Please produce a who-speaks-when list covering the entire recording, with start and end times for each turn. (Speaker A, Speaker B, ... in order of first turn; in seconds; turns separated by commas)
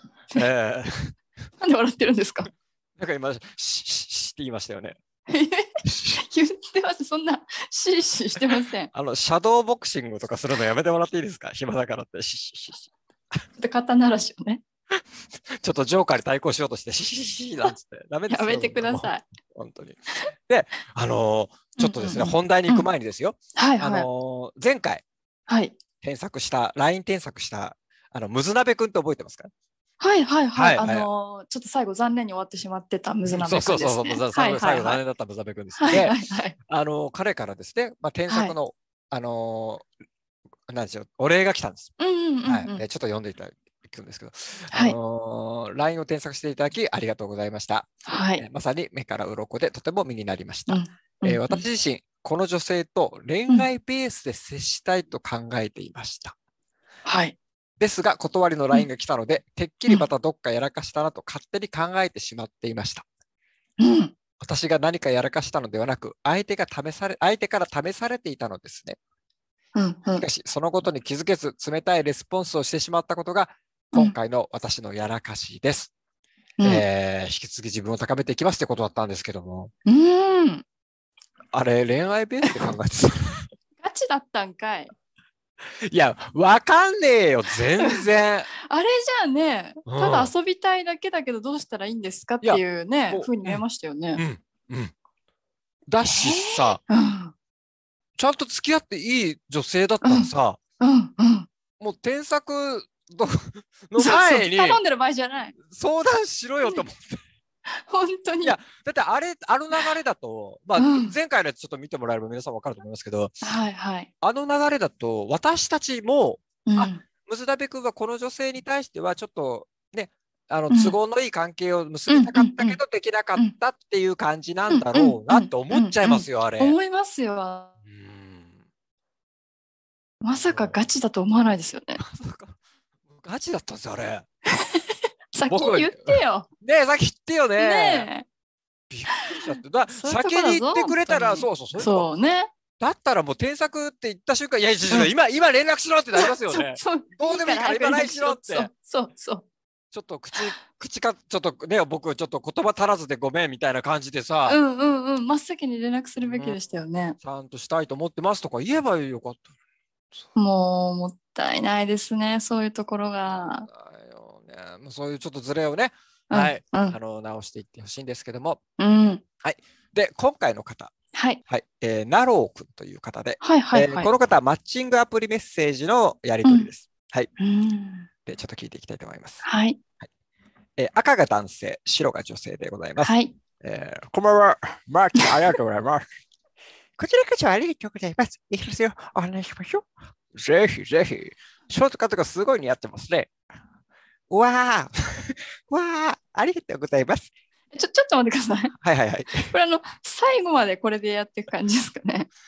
Speaker A: 0.3-1.1, Speaker B: 1.6-2.5, Speaker A: 3.0-5.0, Speaker B: 5.3-8.9, Speaker A: 5.9-6.2, Speaker A: 8.9-12.9, Speaker B: 13.6-14.6, Speaker A: 15.6-25.0, Speaker B: 18.3-19.3, Speaker B: 21.8-22.9, Speaker B: 23.6-24.1, Speaker B: 25.5-25.8, Speaker A: 26.0-29.5, Speaker B: 30.0-35.0, Speaker A: 30.6-31.1, Speaker A: 33.2-39.9, Speaker B: 35.8-36.6, Speaker B: 38.3-38.5, Speaker A: 40.7-41.9, Speaker B: 42.0-42.8, Speaker A: 42.5-56.4, Speaker B: 48.1-48.4, Speaker B: 50.7-51.6, Speaker B: 57.0-57.4, Speaker A: 57.8-63.1, Speaker B: 63.8-64.1, Speaker A: 64.4-69.0, Speaker B: 69.8-70.2, Speaker A: 70.2-75.9, Speaker B: 76.6-76.8, Speaker A: 76.6-79.7, Speaker B: 79.9-80.6, Speaker A: 81.5-83.4, Speaker B: 83.8-84.9, Speaker A: 85.9-88.5, Speaker B: 87.8-88.1, Speaker B: 88.7-94.2, Speaker A: 89.9-90.3, Speaker A: 92.4-93.6, Speaker A: 94.2-94.9, Speaker A: 95.9-96.8, Speaker B: 96.1-97.3, Speaker A: 98.2-100.6, Speaker B: 100.0-101.5, Speaker A: 101.8-104.8, Speaker B: 104.0-105.5, Speaker A: 105.7-107.2, Speaker B: 107.7-108.6, Speaker A: 108.4-113.4, Speaker B: 110.8-111.2, Speaker B: 113.4-114.1, Speaker A: 114.2-126.8, Speaker B: 116.7-117.0, Speaker B: 120.7-121.0, Speaker B: 122.1-122.8, Speaker B: 124.7-127.7, Speaker A: 127.9-128.6, Speaker B: 130.2-132.0, Speaker A: 130.4-130.9, Speaker A: 132.0-132.6, Speaker A: 133.2-134.2, Speaker B: 134.5-136.5, Speaker A: 135.5-138.1, Speaker B: 137.6-138.3, Speaker A: 138.9-142.1, Speaker B: 139.1-142.5, Speaker A: 142.8-148.7, Speaker B: 146.2-149.4, Speaker A: 149.9-154.6, Speaker B: 154.5-157.2, Speaker A: 156.2-156.6, Speaker A: 157.2-159.5, Speaker B: 160.4-163.7, Speaker A: 163.4-168.6, Speaker B: 166.3-167.0, Speaker B: 168.8-169.2, Speaker A: 169.4-170.9, Speaker B: 171.1-171.4, Speaker A: 171.5-177.3, Speaker B: 173.4-174.1, Speaker B: 177.4-178.1, Speaker A: 178.3-179.4, Speaker B: 179.4-179.8, Speaker A: 180.8-186.0, Speaker B: 183.0-183.4, Speaker A: 187.0-193.3, Speaker A: 194.3-197.3, Speaker B: 197.7-198.8, Speaker A: 198.8-199.5, Speaker B: 199.5-202.3